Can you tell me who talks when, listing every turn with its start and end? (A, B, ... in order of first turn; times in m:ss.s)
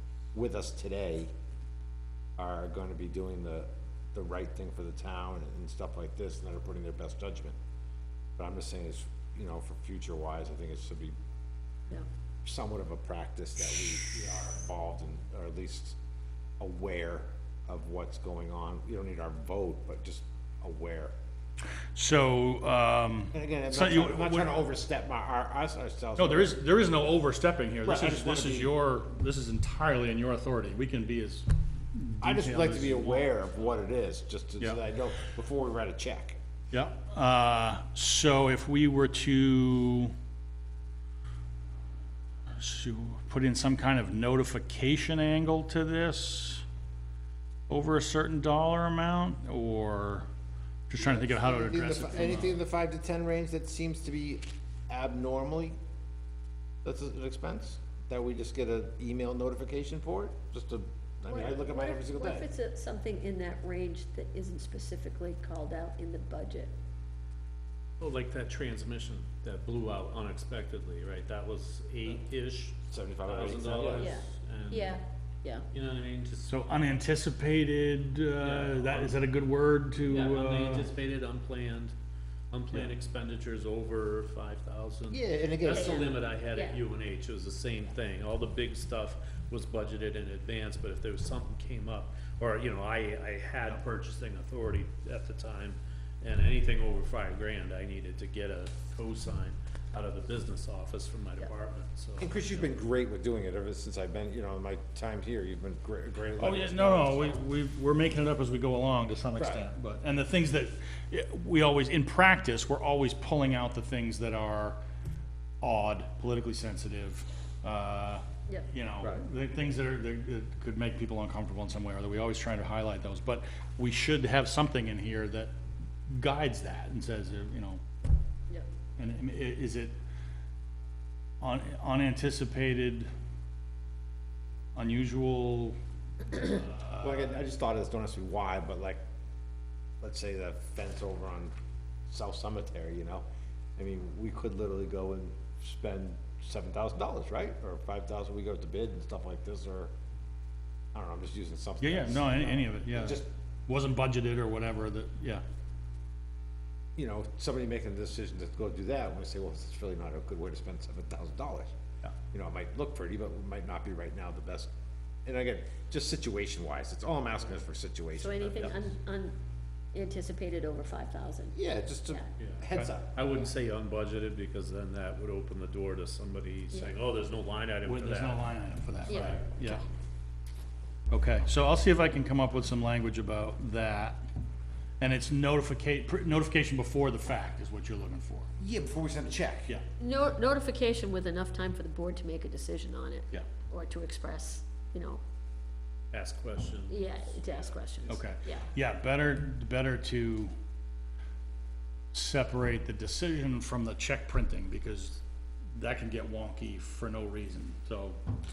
0:00.3-0:01.3 A
0:02.4-0:07.6 A
0:08.4-0:11.2 A
0:12.4-0:16.0 A
0:16.6-0:21.1 A
0:21.9-0:24.6 B
0:23.3-0:26.6 A
0:26.2-0:33.3 B
0:27.8-0:28.7 A
0:32.2-0:36.4 A
0:36.7-0:40.1 B
0:42.6-0:46.6 B
0:47.7-0:50.3 B
0:50.9-0:52.6 B
0:51.0-0:55.8 A
0:56.8-1:02.5 A
1:01.3-1:06.7 C
1:08.0-1:15.0 D
1:12.9-1:14.2 A
1:14.0-1:15.7 C
1:15.7-1:16.5 D
1:16.5-1:20.9 B
1:18.4-1:19.2 D
1:20.1-1:22.0 D
1:22.5-1:42.7 D
1:25.1-1:26.1 A
1:25.7-1:26.8 C
1:42.2-1:47.4 A
1:46.4-1:54.8 B
1:49.4-1:49.6 A
1:55.6-2:05.5 B
1:59.0-1:59.2 A
2:06.1-2:07.8 B
2:09.0-2:10.0 B
2:11.4-2:13.1 B
2:14.8-2:15.8 B
2:16.3-2:17.4 B
2:16.9-2:19.0 A
2:20.0-2:21.5 A
2:22.1-2:23.2 A
2:23.8-2:29.9 A
2:30.9-2:33.3 A
2:31.8-2:35.4 B
2:37.0-2:41.7 A
2:42.3-2:44.7 A
2:45.2-2:48.9 A
2:48.2-2:49.4 C
2:49.9-2:51.6 C
2:51.5-2:53.1 A
2:52.4-2:58.5 D
2:57.8-2:59.8 B
2:59.1-2:59.4 D
2:59.1-2:59.9 C
3:01.1-3:04.2 B
3:05.0-3:08.5 B
3:08.6-3:09.8 A
3:10.0-3:15.2 C
3:16.1-3:18.3 D
3:16.9-3:18.7 C
3:18.1-3:20.5 B
3:22.1-3:25.2 B
3:25.7-3:28.2 B